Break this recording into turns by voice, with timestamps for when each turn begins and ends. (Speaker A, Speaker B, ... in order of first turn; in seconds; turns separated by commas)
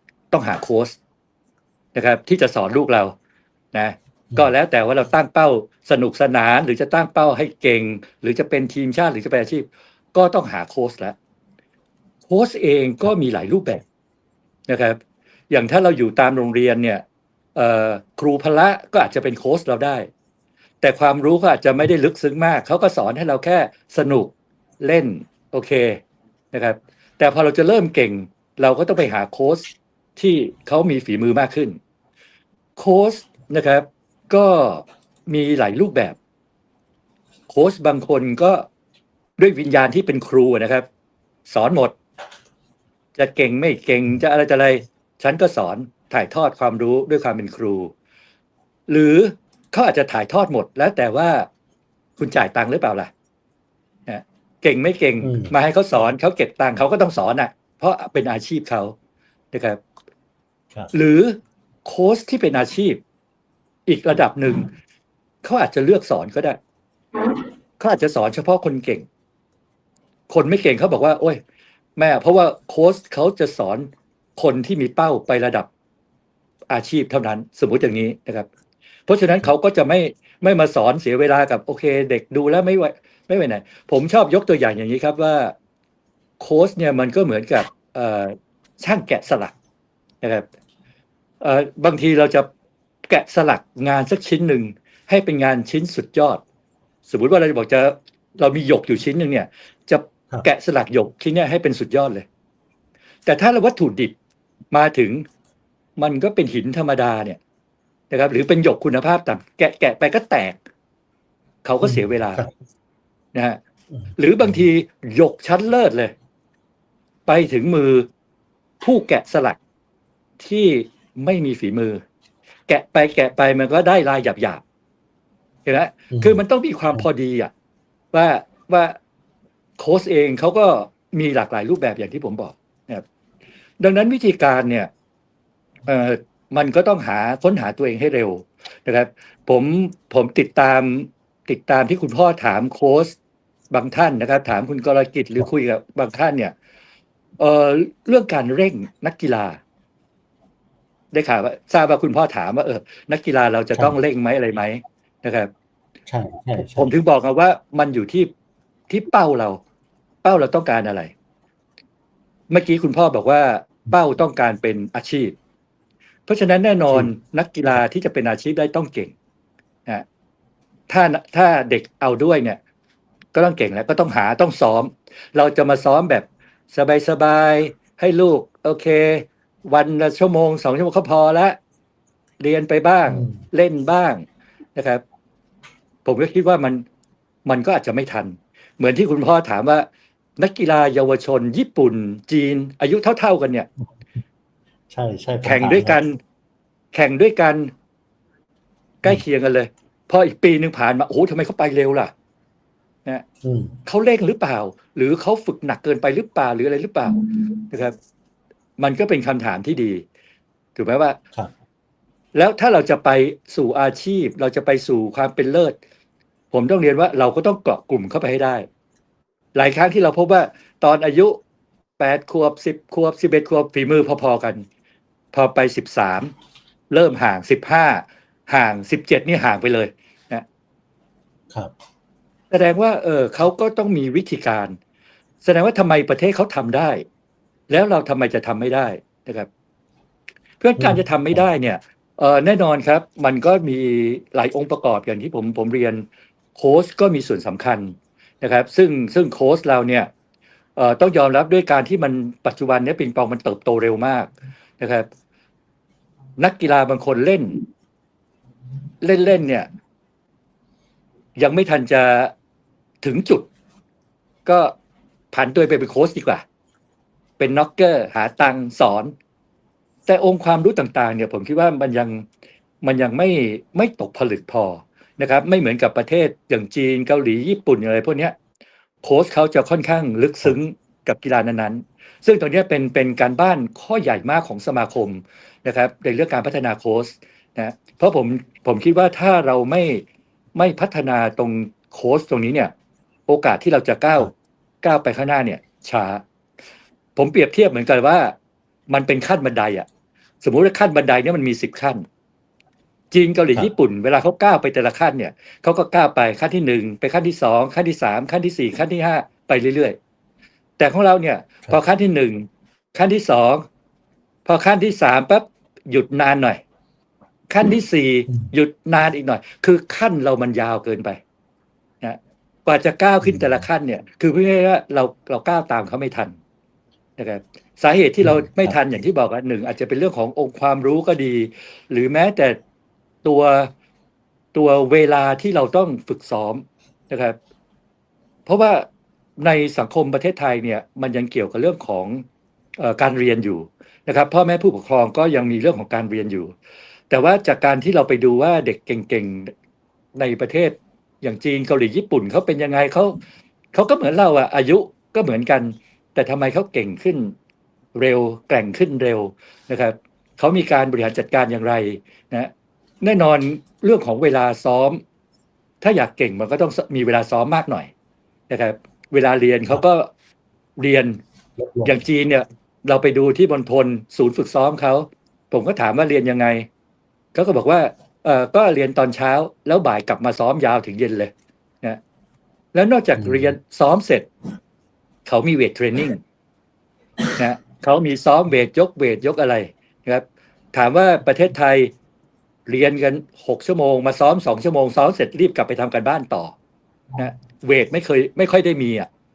Speaker A: 0.3-1.0, Speaker A: 1.9-3.1, Speaker A: 3.7-11.1, Speaker A: 12.3-13.8, Speaker A: 14.7-15.0, Speaker A: 15.5-17.0, Speaker A: 17.5-20.1, Speaker A: 20.8-31.8, Speaker A: 32.8-36.2, Speaker A: 37.5-38.6, Speaker A: 39.4-40.9, Speaker A: 41.5-42.0, Speaker A: 43.1-47.9, Speaker A: 48.9-51.5, Speaker A: 52.2-53.1, Speaker A: 54.1-58.9, Speaker B: 55.2-55.5, Speaker A: 59.5-59.8, Speaker A: 60.9-63.0, Speaker A: 63.9-64.7, Speaker A: 65.4-66.6, Speaker A: 67.8-69.1, Speaker A: 70.3-71.4, Speaker A: 72.0-75.7, Speaker A: 76.7-78.5, Speaker A: 79.1-85.5, Speaker A: 86.4-89.5, Speaker A: 90.2-90.5, Speaker A: 91.4-92.5, Speaker A: 93.1-96.4, Speaker A: 97.0-102.2, Speaker A: 103.2-104.2, Speaker A: 104.7-105.2, Speaker A: 106.0-107.4, Speaker A: 108.1-110.6, Speaker A: 111.6-112.4, Speaker B: 111.8-112.5, Speaker A: 113.3-113.6, Speaker A: 114.2-116.1, Speaker A: 117.2-118.1, Speaker A: 118.8-119.6, Speaker A: 120.4-122.0, Speaker A: 122.7-124.6, Speaker A: 125.6-127.5, Speaker B: 126.1-126.4, Speaker A: 128.1-128.9, Speaker A: 129.8-133.0, Speaker A: 133.8-134.9, Speaker A: 135.8-143.2, Speaker A: 143.7-146.5, Speaker A: 147.4-149.6, Speaker A: 151.1-155.5, Speaker B: 156.1-156.9, Speaker A: 156.6-158.3, Speaker A: 158.9-159.6, Speaker A: 160.2-161.1, Speaker A: 162.5-165.3, Speaker A: 166.2-169.1, Speaker A: 170.9-172.6, Speaker A: 173.3-181.6, Speaker A: 182.4-185.0, Speaker B: 183.1-183.3, Speaker A: 186.0-186.8, Speaker A: 187.4-189.9, Speaker A: 190.4-193.7, Speaker B: 194.9-196.0, Speaker A: 195.4-196.2, Speaker A: 196.9-197.7, Speaker A: 199.0-202.1, Speaker B: 203.4-203.8, Speaker A: 203.8-207.9, Speaker A: 208.8-210.0, Speaker A: 210.7-211.2, Speaker A: 212.3-215.8, Speaker A: 216.5-218.7, Speaker A: 219.5-221.4, Speaker A: 222.0-224.6, Speaker A: 225.3-226.3, Speaker A: 226.9-230.4, Speaker A: 232.5-234.8, Speaker A: 235.4-237.0, Speaker A: 237.7-239.5, Speaker A: 240.6-250.1, Speaker B: 240.8-241.4, Speaker A: 250.8-255.1, Speaker A: 256.4-257.6, Speaker A: 259.0-259.7, Speaker A: 261.4-262.3, Speaker A: 263.0-263.5, Speaker A: 264.4-264.7, Speaker A: 265.3-266.4, Speaker A: 267.4-269.1, Speaker A: 270.1-272.2, Speaker A: 272.8-278.3, Speaker A: 279.0-290.0, Speaker A: 290.5-292.7, Speaker A: 293.3-296.2, Speaker A: 297.1-298.3, Speaker A: 298.9-299.9, Speaker A: 300.4-302.0, Speaker A: 303.1-310.0, Speaker A: 310.8-313.6, Speaker A: 314.4-316.6, Speaker A: 317.5-321.2, Speaker A: 322.0-326.4, Speaker A: 327.2-332.6, Speaker B: 328.2-328.8, Speaker A: 333.2-333.7, Speaker A: 334.5-337.4, Speaker A: 338.4-338.9, Speaker A: 339.4-342.2, Speaker A: 342.8-346.5, Speaker A: 347.1-349.5, Speaker A: 350.2-353.2, Speaker A: 353.7-357.3, Speaker A: 357.9-365.0, Speaker A: 365.8-367.9, Speaker A: 368.5-370.1, Speaker A: 370.8-371.2, Speaker B: 371.6-371.9, Speaker A: 371.8-376.7, Speaker A: 377.3-382.0, Speaker A: 382.7-384.3, Speaker B: 383.2-383.5, Speaker A: 385.2-386.2, Speaker A: 387.4-391.9, Speaker A: 392.6-396.6, Speaker A: 397.1-399.1